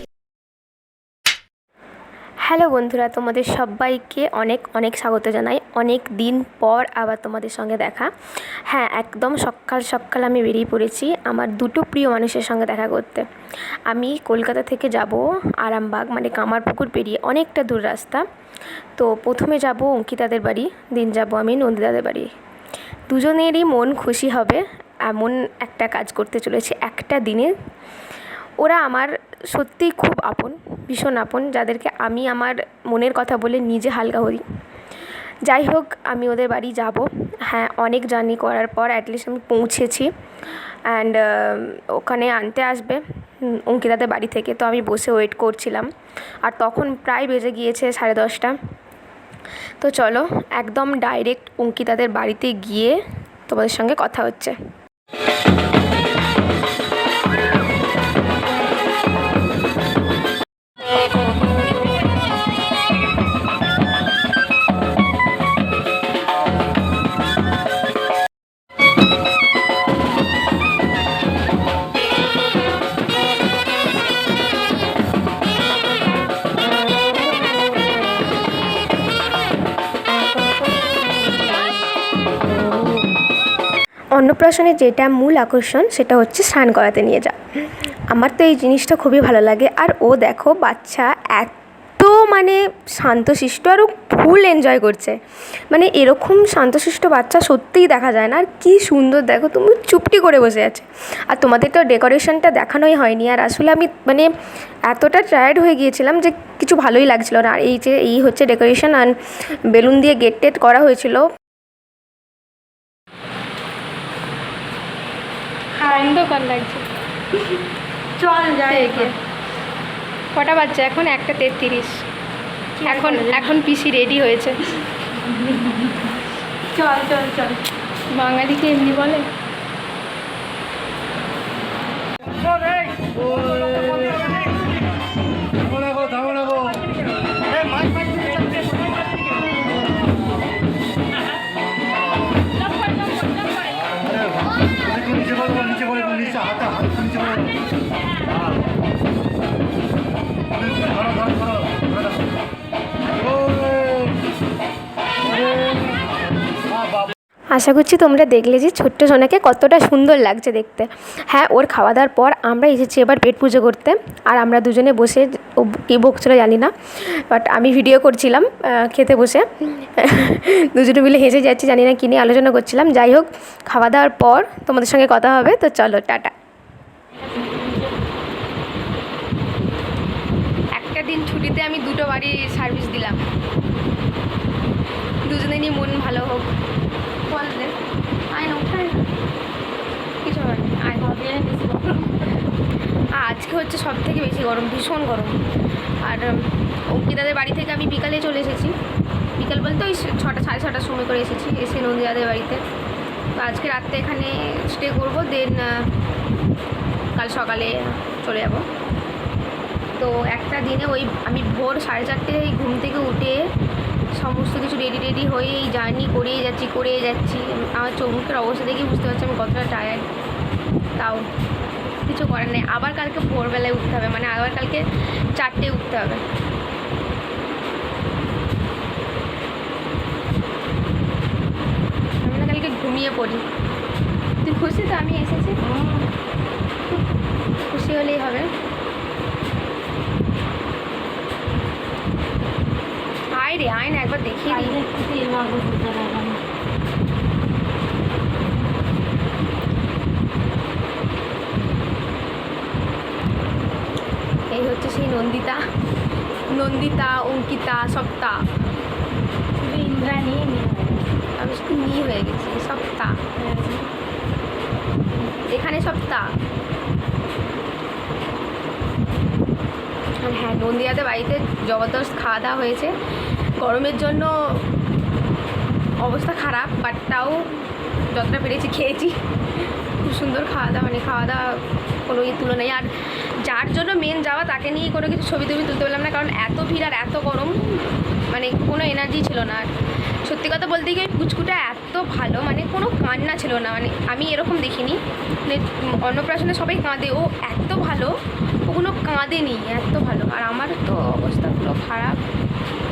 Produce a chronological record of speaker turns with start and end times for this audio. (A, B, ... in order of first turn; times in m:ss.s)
0:02.4-0:08.1 A
0:08.6-0:13.3 A
0:13.9-0:18.2 A
0:19.0-0:22.3 A
0:23.1-0:27.5 A
0:28.6-0:34.4 A
0:35.5-0:40.1 A
0:40.9-0:45.9 A
0:46.4-0:48.6 A
0:49.8-0:54.6 A
1:24.2-1:35.2 A
1:35.7-1:44.3 A
1:44.9-1:51.2 A
1:55.8-1:56.9 A
1:58.2-1:59.1 B
1:58.7-1:59.2 A
2:00.3-2:02.0 A
2:02.8-2:03.6 B
2:02.8-2:04.6 A
2:05.2-2:07.6 B
2:08.1-2:09.3 A
2:13.2-2:14.3 B
2:16.0-2:16.7 B
2:18.1-2:18.6 B
2:37.5-2:56.3 A
2:57.2-2:58.0 B
3:00.8-3:03.2 A
3:05.2-3:06.5 A
3:07.3-3:07.8 A
3:08.3-3:09.0 A
3:10.2-3:11.1 A
3:11.0-3:12.4 B
3:13.2-3:15.4 A
3:16.0-3:18.8 A
3:19.4-3:22.6 A
3:23.4-3:25.9 A
3:27.2-3:28.7 A
3:30.0-3:33.5 A
3:34.1-3:40.0 A
3:41.0-3:41.3 A
3:42.0-3:44.8 A
3:45.4-3:46.2 A
3:52.2-3:53.4 A
3:54.4-3:55.6 A
3:55.6-3:56.1 B
3:57.6-3:58.5 A
4:03.3-4:04.8 A
4:04.5-4:06.4 B
4:14.5-4:15.6 A
4:16.5-4:18.4 A
4:19.6-4:21.1 B
4:21.4-4:23.2 A
4:23.4-4:23.9 B
4:25.4-4:26.3 A
4:30.2-4:33.0 A
4:33.6-4:34.6 A
4:36.0-4:39.2 A
4:40.0-4:49.7 A
4:50.2-4:58.2 A
4:58.7-5:02.2 A